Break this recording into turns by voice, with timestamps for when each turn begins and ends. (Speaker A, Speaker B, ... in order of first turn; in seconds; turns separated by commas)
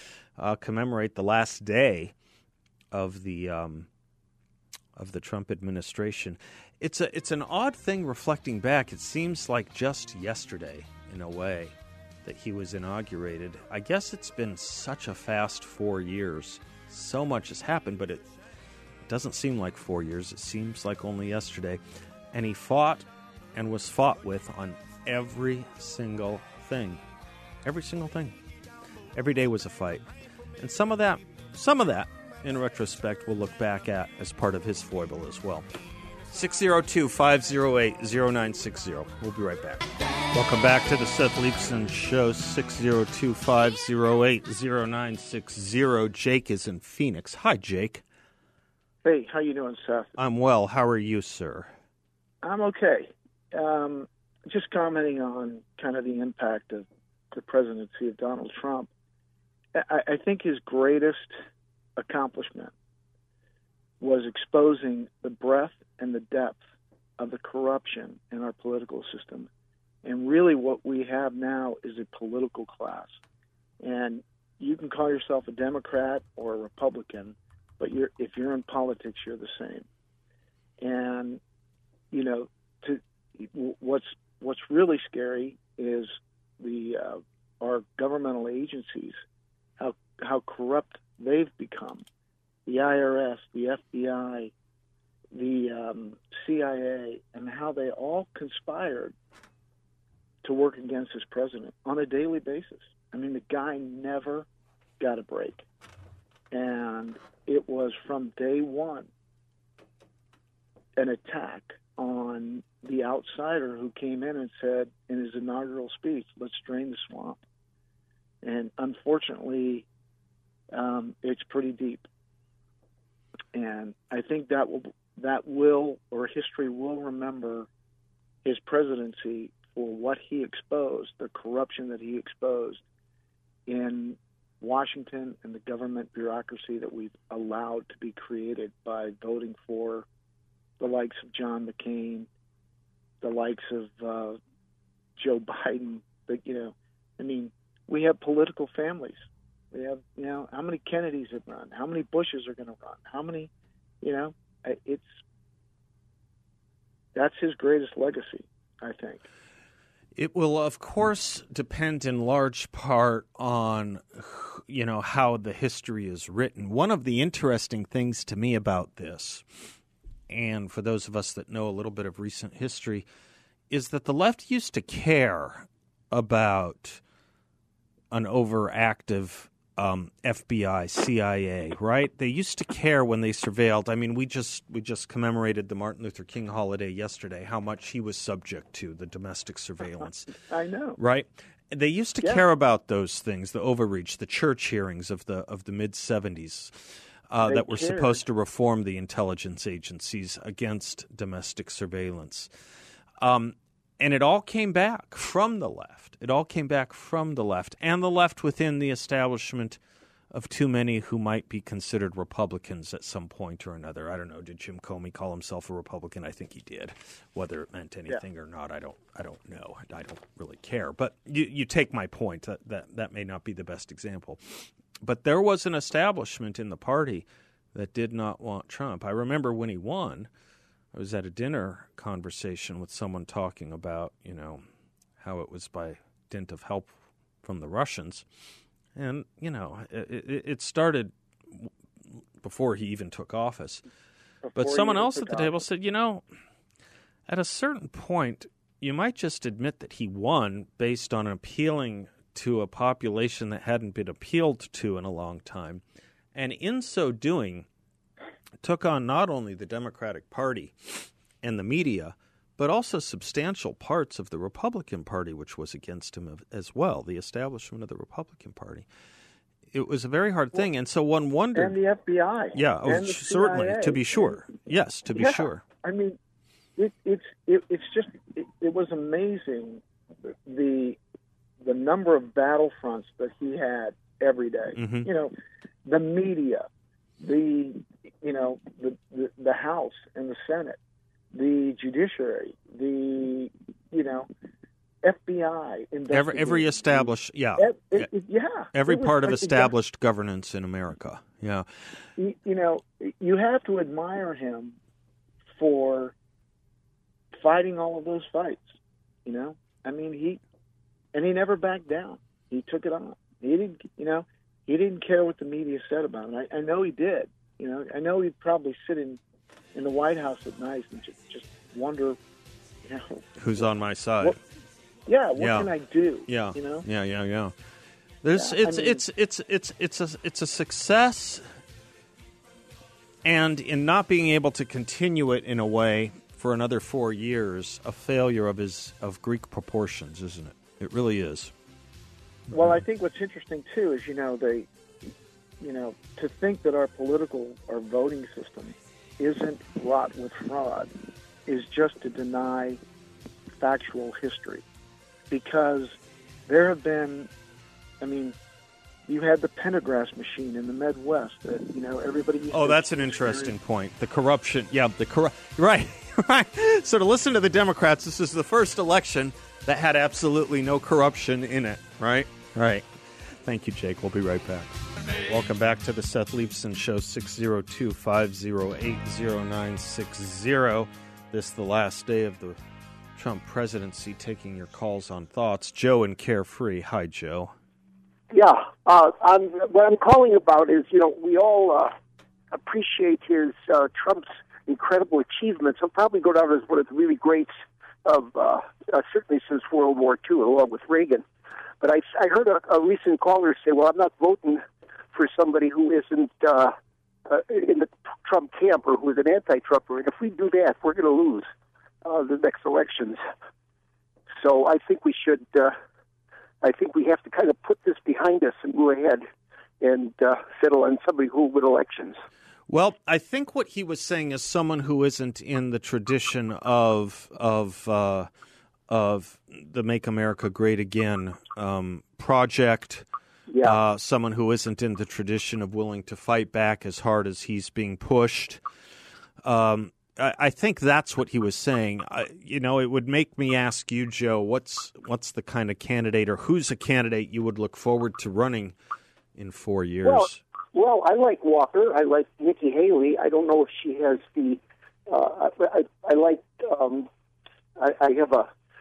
Speaker A: 0.3-2.1, Speaker A: 2.9-3.9, Speaker A: 5.0-18.2, Speaker A: 19.1-21.8, Speaker A: 22.3-27.0, Speaker A: 27.6-28.4, Speaker A: 29.1-30.1, Speaker A: 30.6-35.7, Speaker A: 36.3-48.0, Speaker B: 49.0-50.1, Speaker A: 50.2-51.7, Speaker B: 52.4-58.9, Speaker B: 59.8-61.4, Speaker B: 62.0-62.7, Speaker B: 64.0-66.6, Speaker B: 67.2-69.5, Speaker B: 70.0-73.1, Speaker B: 73.8-79.9, Speaker B: 80.8-81.4, Speaker B: 82.1-89.2, Speaker B: 89.8-92.0, Speaker B: 92.7-94.5, Speaker B: 95.3-99.1, Speaker B: 100.4-104.5, Speaker B: 105.0-105.7, Speaker B: 106.5-109.1, Speaker B: 111.0-117.4, Speaker B: 118.4-119.9, Speaker B: 120.7-122.0, Speaker B: 123.5-127.7, Speaker B: 128.4-132.8, Speaker B: 133.7-140.1, Speaker B: 140.8-142.3, Speaker B: 143.2-144.4, Speaker B: 145.2-153.5, Speaker B: 154.0-155.2, Speaker B: 157.1-159.2, Speaker A: 160.2-169.4, Speaker A: 170.3-173.1, Speaker A: 173.7-177.0, Speaker A: 178.1-190.3, Speaker B: 190.4-191.0, Speaker A: 191.0-202.5, Speaker B: 197.4-198.2, Speaker A: 203.2-209.8, Speaker A: 210.3-230.3, Speaker A: 230.9-234.6, Speaker A: 235.2-238.2, Speaker A: 238.9-241.7, Speaker A: 242.4-243.8, Speaker B: 244.4-245.6, Speaker A: 244.5-246.2, Speaker A: 247.3-255.8, Speaker A: 256.3-257.7, Speaker A: 258.6-268.9, Speaker A: 269.7-271.8, Speaker B: 271.5-274.5, Speaker A: 272.5-275.6, Speaker B: 275.1-276.2, Speaker B: 276.8-279.8, Speaker B: 280.4-281.0, Speaker B: 281.6-285.3, Speaker A: 284.8-285.1, Speaker B: 285.9-286.7, Speaker B: 287.2-290.8, Speaker B: 291.3-294.3, Speaker B: 295.0-299.7, Speaker A: 296.1-298.1, Speaker A: 298.7-301.7, Speaker B: 302.2-304.8, Speaker B: 305.5-306.1, Speaker B: 307.3-308.7, Speaker B: 309.2-310.4, Speaker B: 311.1-319.2, Speaker B: 319.7-322.2, Speaker B: 322.8-324.4, Speaker A: 323.4-324.4, Speaker B: 325.1-326.9, Speaker A: 325.4-325.7, Speaker A: 326.3-327.5, Speaker A: 328.2-331.4, Speaker B: 328.3-329.0, Speaker A: 333.2-341.5, Speaker B: 342.5-344.7, Speaker B: 345.6-350.9, Speaker B: 351.5-352.8, Speaker B: 353.6-354.6, Speaker B: 355.3-357.3, Speaker B: 358.0-358.4, Speaker B: 359.1-363.5, Speaker A: 362.5-382.6, Speaker A: 383.1-387.5, Speaker C: 388.3-391.9, Speaker C: 392.5-397.5, Speaker C: 398.0-401.2, Speaker C: 401.8-404.6, Speaker C: 405.1-406.7, Speaker C: 407.3-411.5, Speaker C: 412.0-413.2, Speaker C: 414.4-415.7, Speaker C: 416.6-419.2, Speaker C: 419.8-422.2, Speaker A: 422.7-428.3, Speaker A: 428.9-433.1, Speaker C: 433.5-433.8, Speaker A: 433.6-438.6, Speaker A: 439.4-448.8, Speaker A: 449.4-450.4, Speaker C: 450.0-457.1, Speaker C: 457.8-458.5